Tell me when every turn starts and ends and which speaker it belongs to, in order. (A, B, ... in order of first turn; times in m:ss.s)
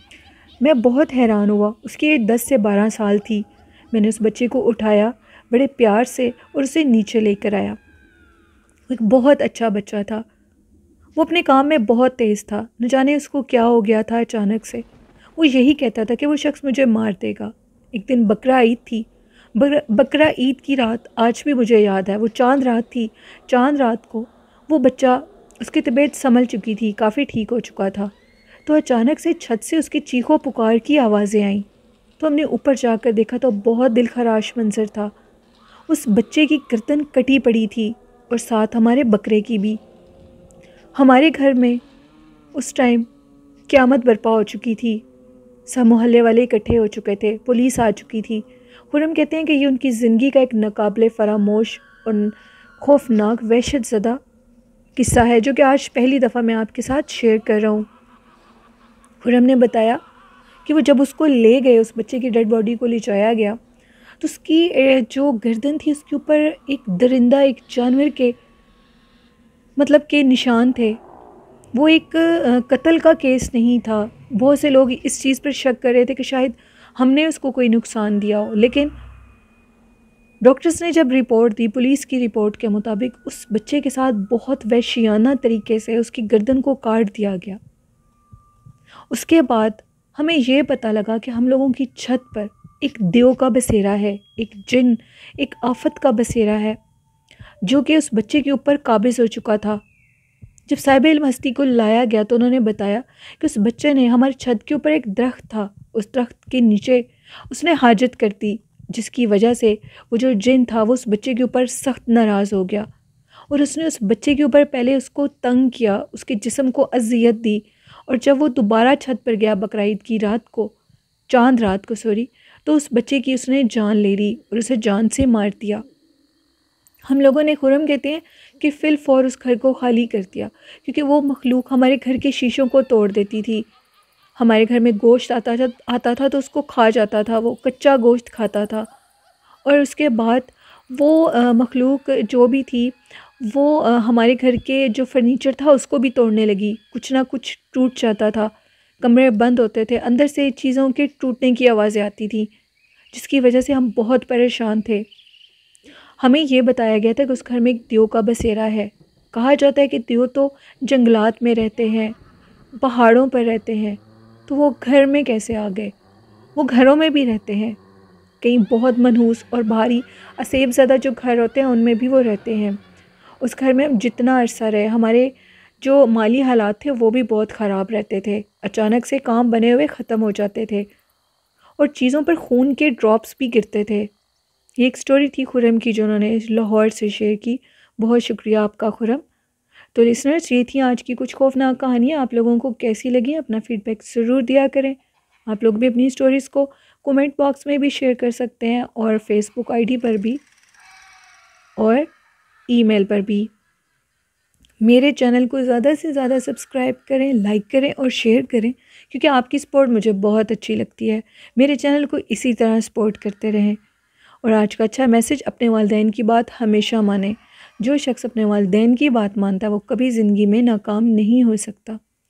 0:00.6-0:07.8 A
0:08.9-0:10.2 A
0:11.2-0:14.8 A
0:15.4-0:28.1 A
0:28.6-0:31.7 A
0:32.2-0:35.1 A
0:35.9-0:39.8 A
0:40.9-0:41.8 A
0:42.5-0:43.1 A
0:43.7-0:45.0 A
0:45.7-0:54.2 A
0:55.0-0:57.9 A
0:59.2-1:00.0 A
1:00.6-1:03.6 A
1:04.2-1:08.4 A
1:09.8-1:11.0 A
1:11.7-1:18.9 A
1:20.4-1:27.6 A
1:29.1-1:36.8 A
1:37.6-1:39.8 A
1:40.7-1:52.9 A
1:53.5-2:00.8 A
2:01.3-2:05.8 A
2:07.0-2:13.7 A
2:14.4-2:18.9 A
2:19.6-2:32.5 A
2:33.1-2:35.1 A
2:36.2-2:42.2 A
2:42.8-2:45.9 A
2:46.5-2:47.8 A
2:48.4-2:52.8 A
2:53.4-3:00.9 A
3:01.8-3:04.1 A
3:04.8-3:09.2 A
3:09.9-3:20.4 A
3:21.8-3:22.1 A
3:22.7-3:23.5 A
3:24.8-3:33.8 A
3:34.4-3:42.0 A